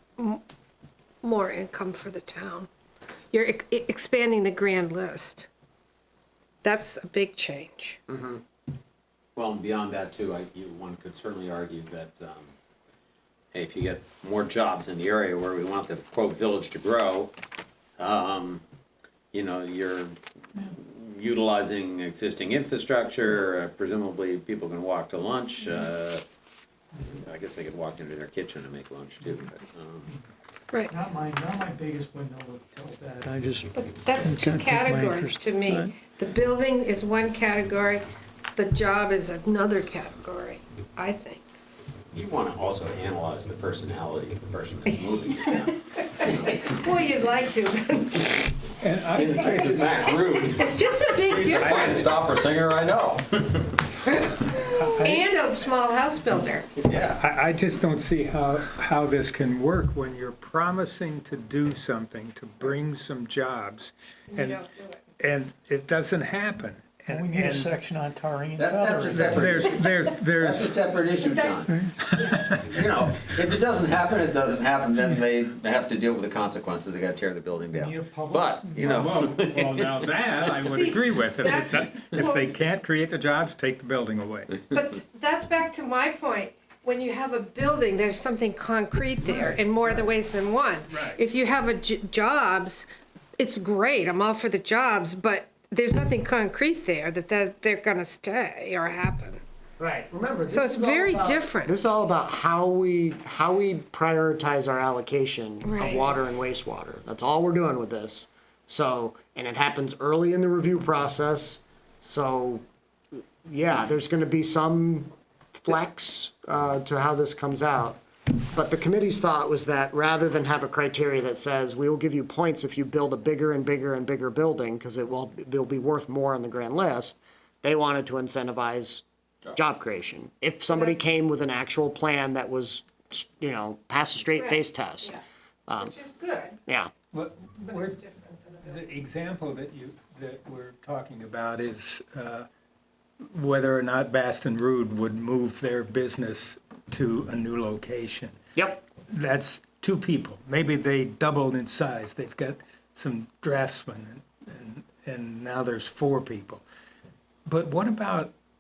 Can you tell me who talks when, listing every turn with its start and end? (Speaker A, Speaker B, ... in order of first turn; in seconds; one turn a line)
Speaker A: 0.2-0.4
Speaker A: 1.2-2.7
Speaker A: 3.3-5.5
Speaker A: 6.6-8.0
Speaker B: 8.1-8.4
Speaker C: 9.4-12.5
Speaker C: 13.5-17.3
Speaker C: 18.0-18.6
Speaker C: 19.3-26.2
Speaker C: 27.0-30.1
Speaker D: 30.9-35.9
Speaker A: 33.8-38.0
Speaker A: 38.6-41.4
Speaker C: 42.1-46.7
Speaker A: 46.0-48.4
Speaker E: 48.8-50.2
Speaker C: 49.2-53.9
Speaker A: 50.1-52.3
Speaker A: 54.3-56.7
Speaker E: 54.8-55.3
Speaker C: 56.8-57.2
Speaker E: 57.2-64.6
Speaker A: 64.3-65.0
Speaker E: 65.2-67.7
Speaker D: 67.1-69.6
Speaker C: 68.6-71.7
Speaker E: 69.1-70.7
Speaker A: 71.2-71.7
Speaker E: 72.1-72.6
Speaker C: 72.6-80.2
Speaker D: 77.7-80.5
Speaker E: 78.8-84.6
Speaker A: 80.6-82.5
Speaker A: 84.7-92.9
Speaker A: 93.4-99.4
Speaker B: 99.8-112.6
Speaker A: 100.5-101.7
Speaker A: 105.6-106.2
Speaker B: 113.5-118.0
Speaker B: 118.5-135.2
Speaker A: 130.7-131.1
Speaker A: 134.4-135.2
Speaker B: 135.7-135.9
Speaker A: 135.8-136.6
Speaker B: 136.7-136.9
Speaker E: 137.1-138.0
Speaker A: 137.7-138.6
Speaker E: 138.6-142.5
Speaker E: 143.2-148.4
Speaker B: 148.6-148.8
Speaker E: 149.0-156.7
Speaker E: 157.5-158.3